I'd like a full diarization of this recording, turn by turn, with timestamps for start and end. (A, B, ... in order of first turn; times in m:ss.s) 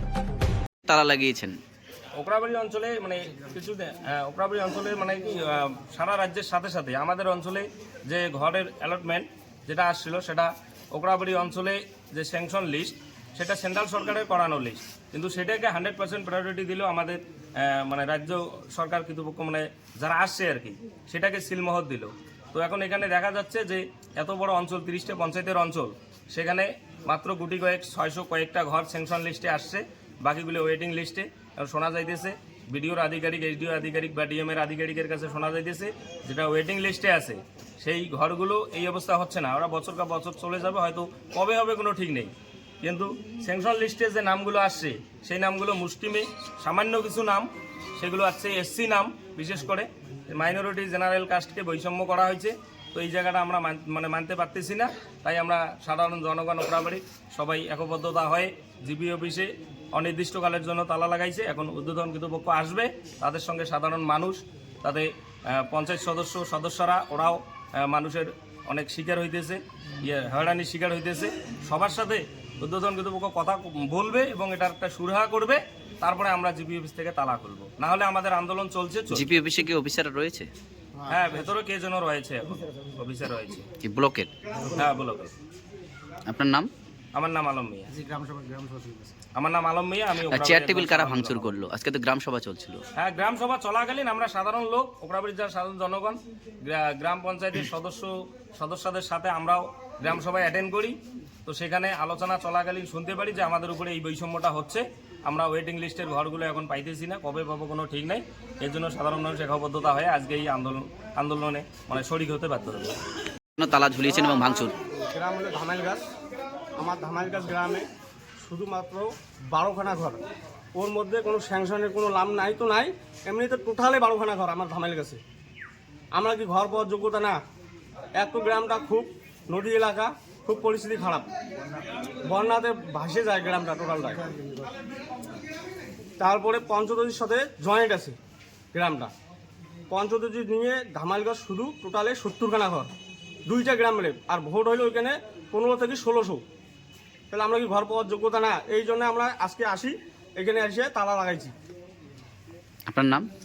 0:00.8-0:01.6 A
0:02.2-1:19.3 B
1:19.1-1:20.5 A
1:21.0-1:23.7 B
1:23.8-1:24.3 A
1:24.7-1:25.3 B
1:26.2-1:26.7 A
1:27.1-1:28.2 B
1:29.3-1:31.5 B
1:30.3-1:32.8 A
1:33.0-1:53.0 B
1:53.6-1:54.7 A
1:55.0-1:56.0 C
1:56.8-1:57.8 C
1:58.4-2:00.2 C
2:00.7-2:05.2 C
2:06.1-2:07.4 C
2:08.2-2:11.3 C
2:12.2-2:14.2 C
2:16.2-2:18.2 C
2:18.7-2:19.1 C
2:19.9-2:22.9 C
2:23.4-2:26.4 C
2:27.3-2:31.5 C
2:32.9-2:33.3 A